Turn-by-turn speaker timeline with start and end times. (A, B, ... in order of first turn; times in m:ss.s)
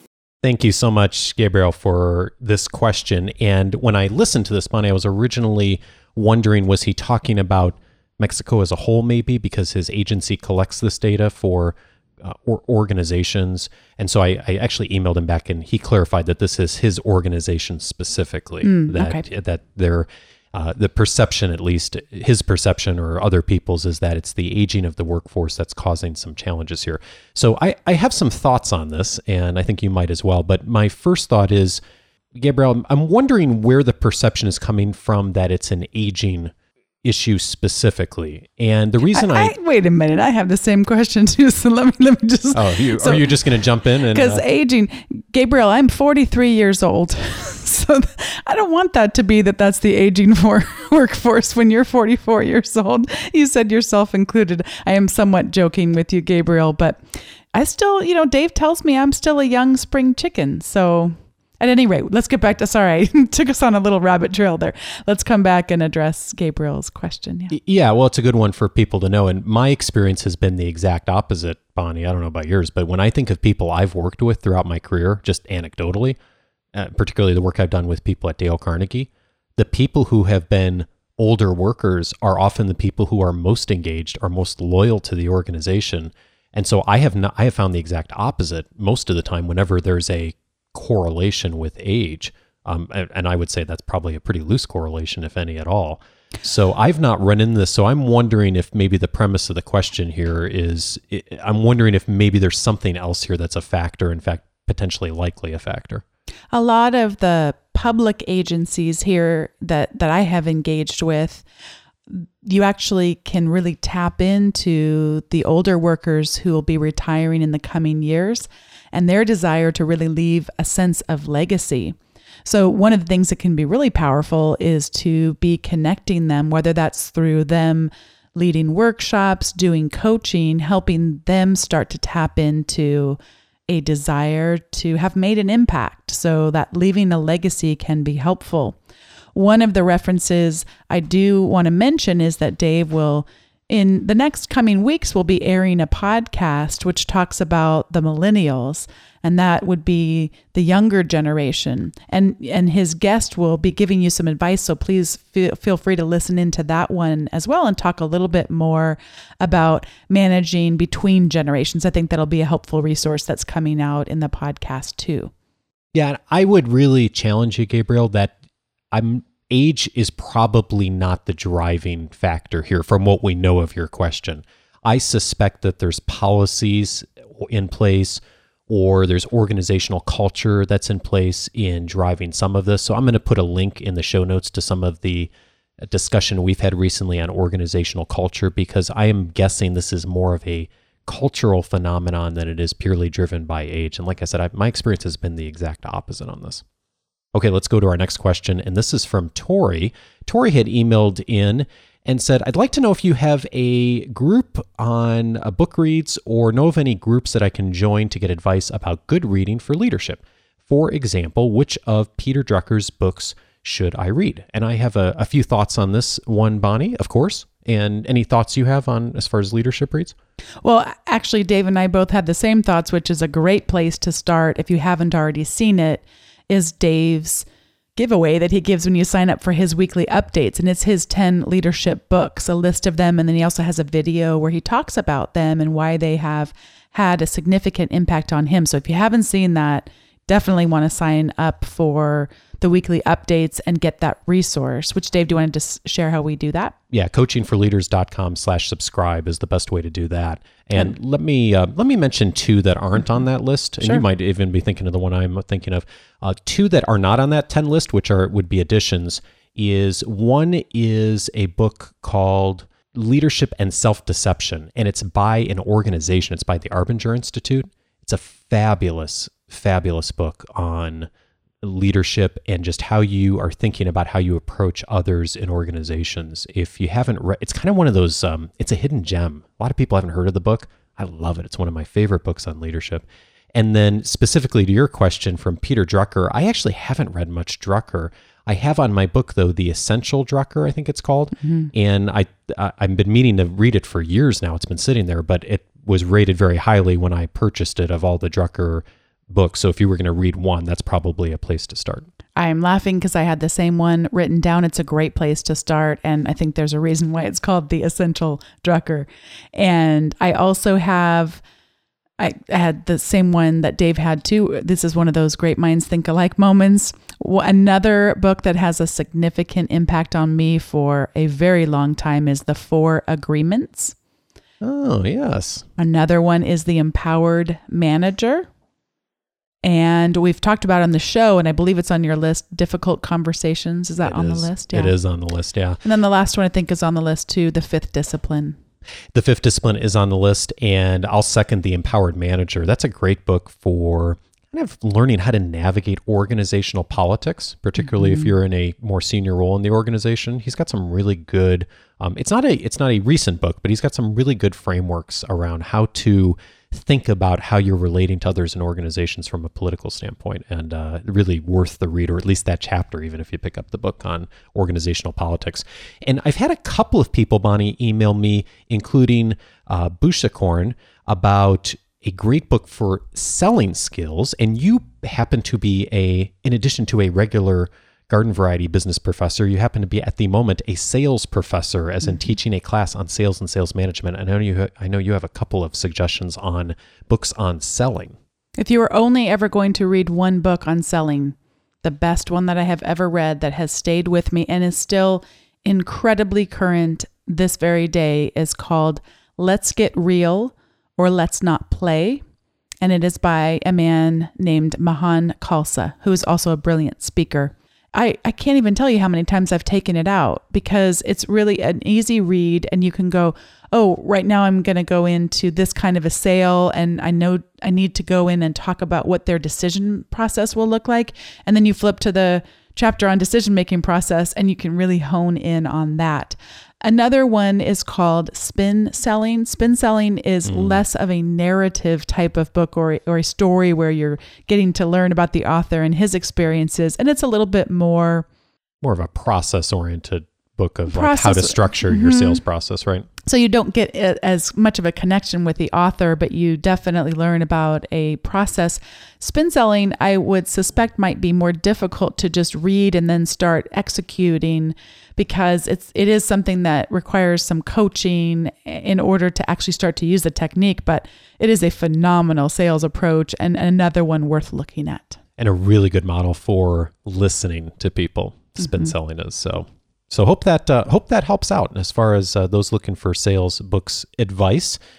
0:00.4-0:31.8 A
0:18.6-0:19.2 B
0:32.3-0:39.5 A
0:39.1-0:43.3 B
0:42.5-0:44.4 A
0:44.0-1:07.5 B
1:07.5-1:16.2 A
1:16.7-1:46.0 A
1:46.5-1:51.4 B
1:52.1-2:18.8 B
2:19.3-2:45.3 B
2:45.9-2:48.3 A
2:48.9-3:05.3 A
3:05.8-3:16.6 A
3:17.3-3:40.1 A
3:40.6-4:06.7 B
4:06.9-4:31.1 A
4:31.6-5:02.1 A
4:51.4-4:51.7 B
5:02.4-5:11.4 B
5:12.2-5:23.9 B
5:24.6-5:25.6 A
5:25.8-5:28.5 B
5:29.6-5:34.9 B
5:34.0-5:35.8 A
5:35.8-5:38.6 B
5:39.1-6:28.2 A
5:48.0-5:48.3 B
6:28.6-6:42.2 B
6:42.8-7:18.3 B
7:10.4-7:10.8 A
7:18.8-7:23.1 A
7:20.9-7:22.4 B
7:23.2-7:45.2 B
7:45.4-7:54.8 A